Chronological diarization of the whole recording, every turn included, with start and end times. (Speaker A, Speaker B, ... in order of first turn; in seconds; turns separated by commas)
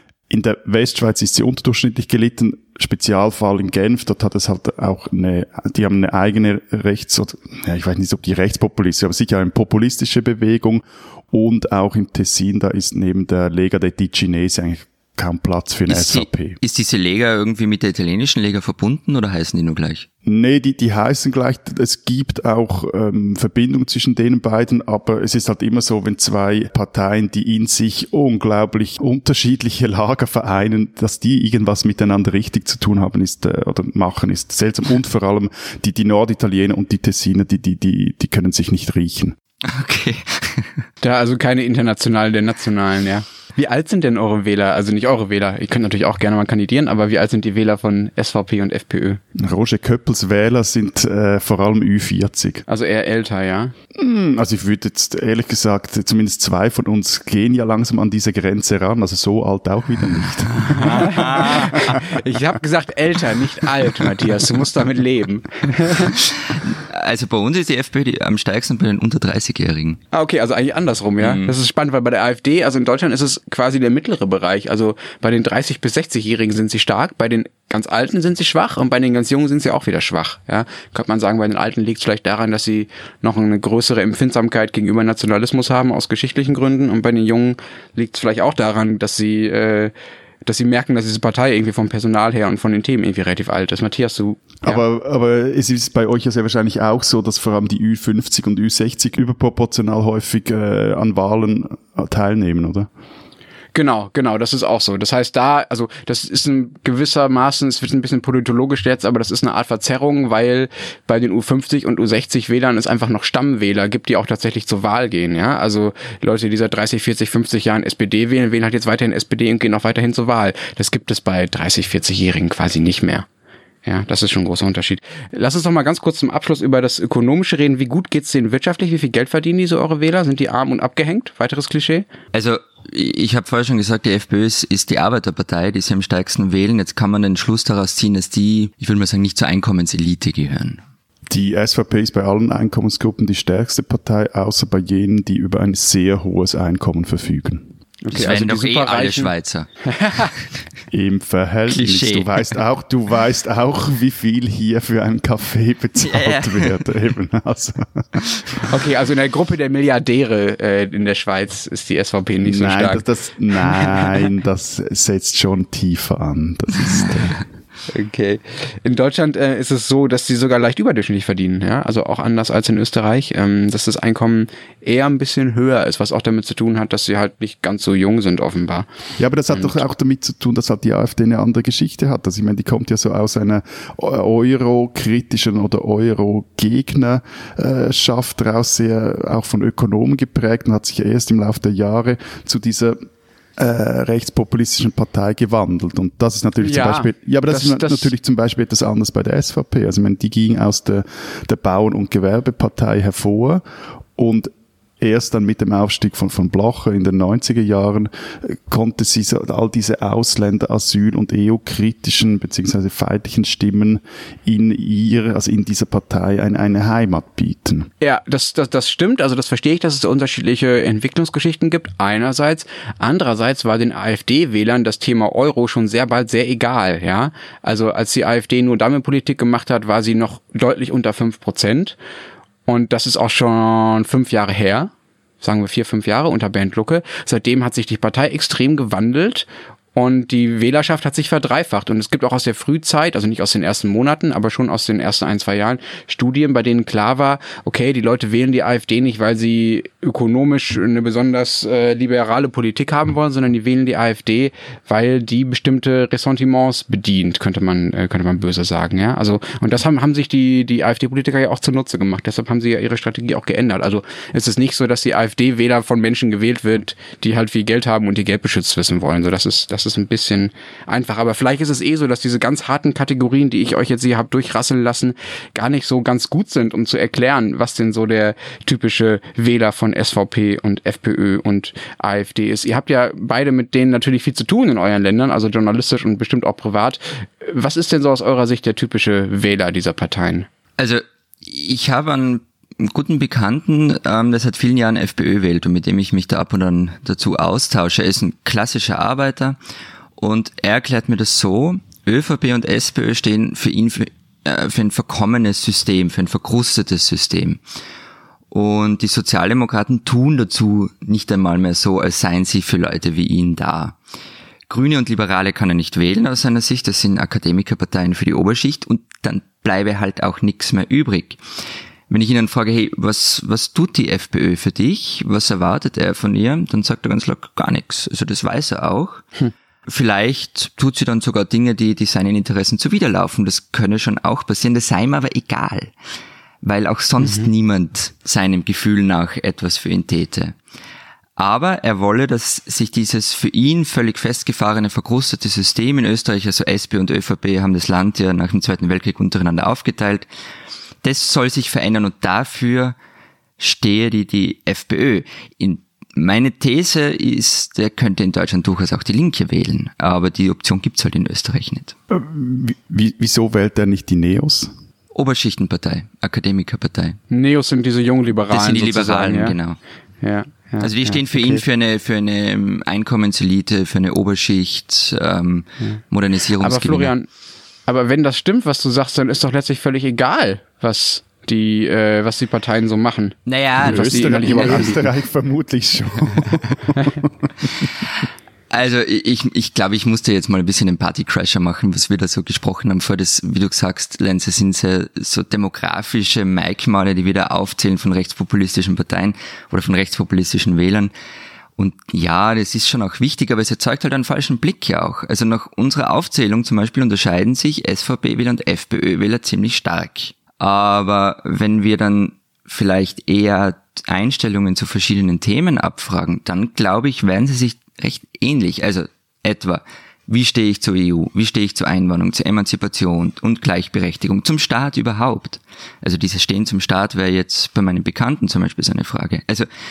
Speaker A: 0.3-16.6, Speaker B: 15.9-20.1, Speaker A: 20.2-39.4, Speaker B: 39.6-40.8, Speaker C: 41.0-49.2, Speaker A: 49.3-52.6, Speaker C: 52.7-53.7, Speaker A: 53.9-62.0, Speaker B: 60.4-62.0, Speaker C: 60.8-66.1, Speaker B: 66.1-70.0, Speaker C: 70.1-89.9, Speaker B: 71.2-71.5, Speaker C: 90.5-94.8, Speaker A: 94.6-102.9, Speaker C: 103.7-123.3, Speaker C: 123.8-132.1, Speaker B: 132.3-140.8, Speaker A: 141.3-147.7, Speaker C: 148.0-149.3, Speaker B: 148.1-149.7, Speaker C: 149.8-150.3, Speaker A: 150.9-158.2, Speaker B: 151.7-152.5, Speaker B: 156.0-156.8, Speaker C: 158.6-164.3, Speaker A: 162.4-167.4, Speaker C: 167.9-178.9, Speaker A: 179.2-193.0, Speaker C: 179.5-179.8, Speaker A: 193.6-203.6, Speaker C: 196.6-198.1, Speaker A: 204.2-217.9, Speaker C: 218.0-232.0, Speaker C: 232.7-290.5, Speaker B: 290.8-299.6, Speaker B: 300.2-307.6, Speaker B: 308.5-314.0, Speaker B: 314.7-321.4, Speaker B: 322.1-329.3, Speaker B: 329.9-335.9, Speaker B: 336.6-340.6, Speaker C: 337.2-337.5, Speaker B: 341.4-350.3, Speaker B: 351.0-352.9, Speaker B: 353.6-361.9, Speaker A: 362.1-364.7, Speaker B: 365.1-367.2, Speaker C: 367.3-369.5, Speaker B: 368.5-369.8, Speaker C: 370.2-371.6, Speaker B: 370.8-377.1, Speaker C: 376.6-377.3, Speaker C: 377.9-385.0, Speaker B: 383.4-385.0, Speaker A: 383.8-387.9, Speaker B: 388.7-401.1, Speaker B: 401.8-429.6